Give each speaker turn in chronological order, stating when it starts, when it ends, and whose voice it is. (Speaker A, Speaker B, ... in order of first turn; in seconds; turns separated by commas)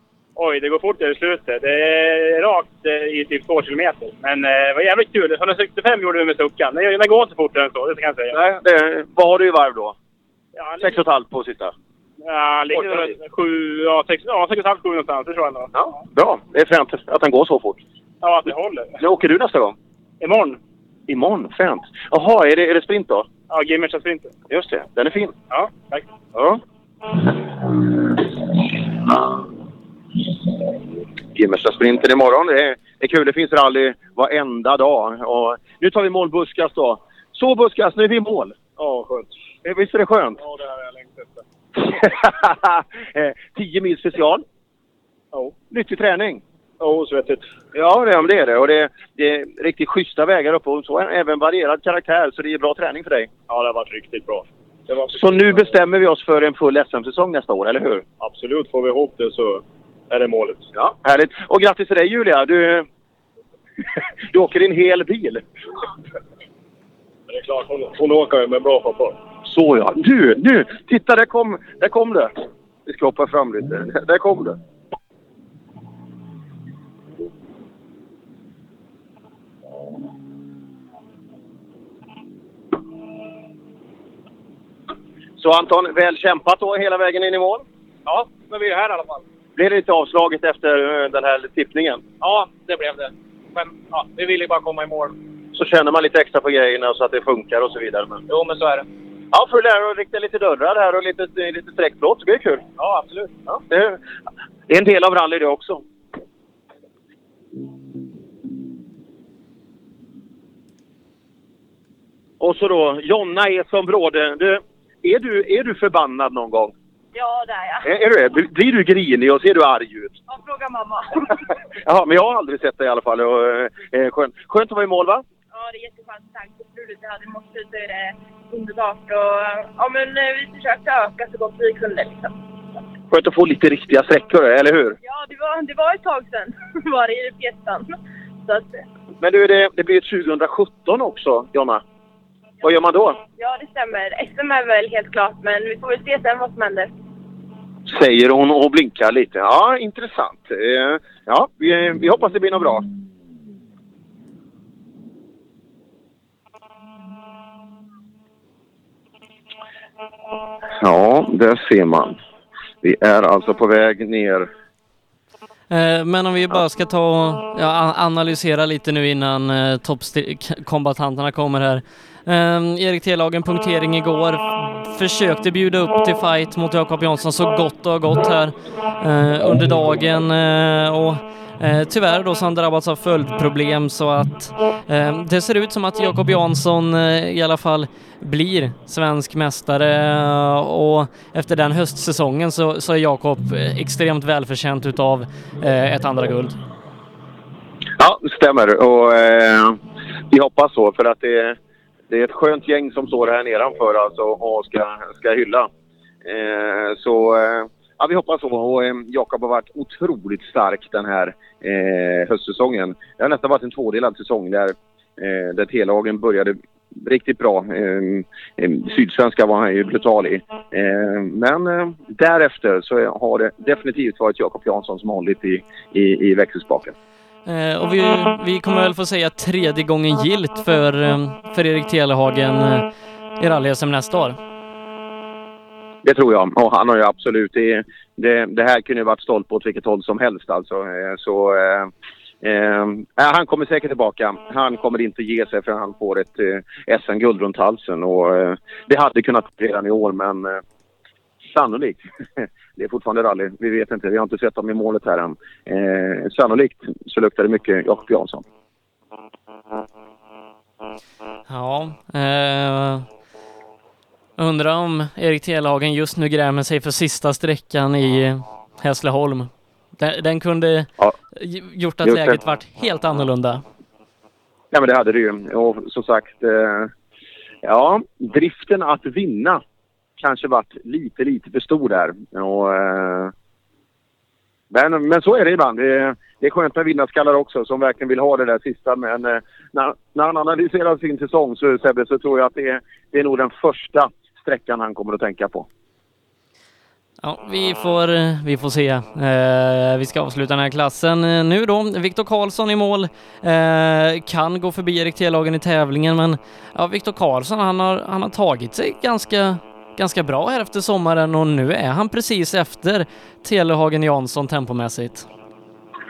Speaker A: 0.4-8.4, Speaker B: 8.3-9.9, Speaker A: 10.6-10.9, Speaker B: 10.8-11.7, Speaker A: 12.2-15.7, Speaker B: 15.7-17.8, Speaker A: 18.2-18.9, Speaker B: 19.0-19.7, Speaker A: 20.2-20.6, Speaker B: 21.1-23.3, Speaker A: 23.5-24.3, Speaker B: 24.5-25.4, Speaker A: 25.5-26.0, Speaker B: 31.4-38.6, Speaker A: 38.8-39.3, Speaker B: 39.6-40.4, Speaker A: 40.4-41.4, Speaker B: 41.8-44.4, Speaker B: 45.7-46.4, Speaker A: 46.8-47.4, Speaker B: 47.7-53.3, Speaker A: 53.5-54.4, Speaker B: 55.1-58.0, Speaker A: 58.2-59.6, Speaker A: 60.1-60.6, Speaker B: 60.8-62.9, Speaker B: 64.3-65.4, Speaker A: 67.3-69.1, Speaker B: 69.4-72.3, Speaker B: 72.8-74.6, Speaker B: 85.4-87.6, Speaker A: 88.1-89.0, Speaker B: 89.6-92.0, Speaker B: 95.5-98.2, Speaker B: 99.3-102.6, Speaker A: 102.8-103.2, Speaker B: 103.5-104.0, Speaker B: 104.7-105.8, Speaker B: 112.4-116.7, Speaker C: 117.1-117.9, Speaker B: 117.8-120.1, Speaker C: 120.3-121.3, Speaker B: 121.8-125.2, Speaker C: 125.5-132.3, Speaker B: 133.1-134.9, Speaker C: 135.0-138.8, Speaker B: 139.2-141.8, Speaker B: 142.6-143.2, Speaker C: 143.4-146.9, Speaker B: 147.9-152.8, Speaker B: 160.8-162.1, Speaker B: 162.8-164.5, Speaker D: 165.7-196.6, Speaker B: 198.0-199.8, Speaker B: 200.3-201.6, Speaker B: 202.1-205.7, Speaker B: 206.2-226.9, Speaker D: 227.5-232.9, Speaker D: 233.4-234.4, Speaker B: 236.0-241.9, Speaker B: 242.4-250.6, Speaker B: 251.5-258.4, Speaker D: 261.5-263.1, Speaker D: 264.4-273.6, Speaker B: 272.1-272.3, Speaker B: 274.7-276.9, Speaker B: 277.6-279.6, Speaker B: 280.2-283.3, Speaker B: 284.7-295.7, Speaker D: 297.2-315.3